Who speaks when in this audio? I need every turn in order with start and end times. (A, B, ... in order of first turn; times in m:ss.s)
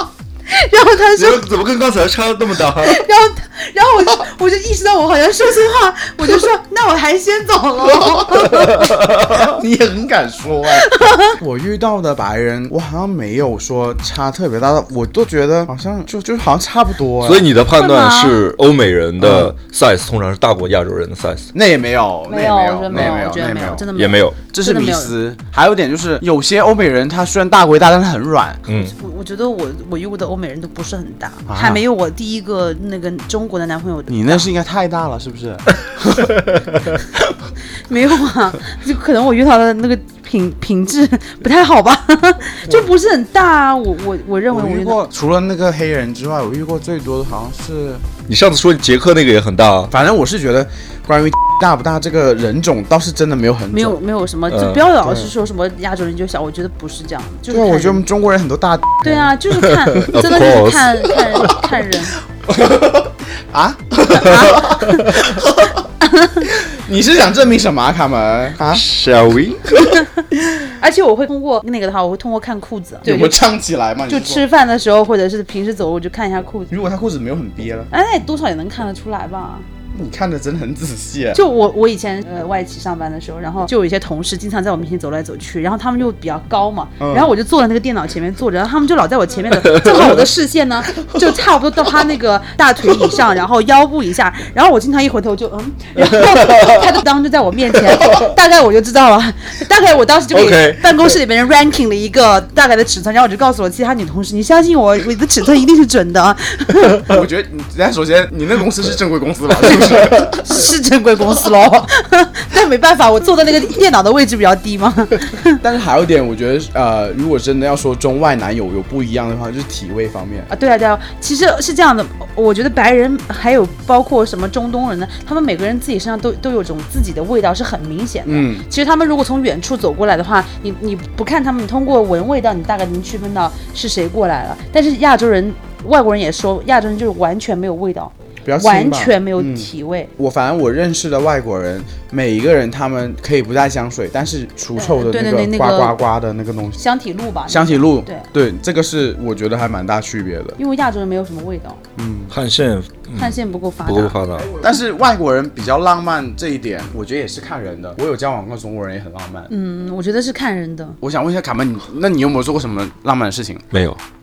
0:00.5-0:01.4 A
0:01.2-0:03.0 B
0:02.8-0:09.0 A
0:08.3-0:17.5 C
0:08.6-0:09.4 B
0:10.8-0:11.4 A
0:17.2-0:21.5 B
0:17.7-0:18.4 A
0:19.2-0:19.5 C
0:21.5-0:23.9 C
0:22.3-0:25.2 A
0:24.0-0:24.4 B
0:24.5-0:28.6 C
0:28.7-0:28.9 B
0:28.8-0:34.5 A
0:31.5-0:31.8 C
0:34.1-0:36.3 C
0:37.9-0:45.0 A
0:44.5-0:48.0 C
0:48.3-0:49.9 B
0:49.9-0:54.0 C
0:53.7-0:58.0 A
0:54.5-0:54.9 B
0:55.0-0:55.3 C
0:57.5-0:59.4 C
0:59.0-1:02.2 A
0:59.5-1:01.7 B
0:59.9-1:00.2 C
1:02.5-1:05.8 C
1:04.1-1:05.1 A
1:04.7-1:05.1 B
1:06.0-1:06.5 A
1:06.4-1:08.8 C
1:08.7-1:09.7 B
1:09.8-1:13.4 A
1:13.0-1:14.4 C
1:14.1-1:16.7 A
1:16.7-1:17.9 C
1:17.9-1:19.6 A
1:19.9-1:21.4 C
1:21.3-1:47.1 A
1:27.0-1:27.3 C
1:29.6-1:30.2 B
1:36.0-1:36.8 B
1:38.0-1:38.3 B
1:40.3-1:41.2 B
1:47.1-1:50.4 C
1:50.1-1:55.6 A
1:55.6-2:00.5 C
2:00.5-2:20.1 A
2:08.2-2:08.7 C
2:18.4-2:26.8 C
2:24.8-2:26.0 A
2:26.8-2:28.3 A
2:27.5-2:30.6 C
2:30.6-2:31.8 A
2:32.0-2:32.3 C
2:32.3-2:34.5 B
2:33.2-2:34.2 A
2:34.6-2:39.5 C
2:39.5-2:41.0 A
2:41.0-2:43.7 C
2:43.7-2:44.0 B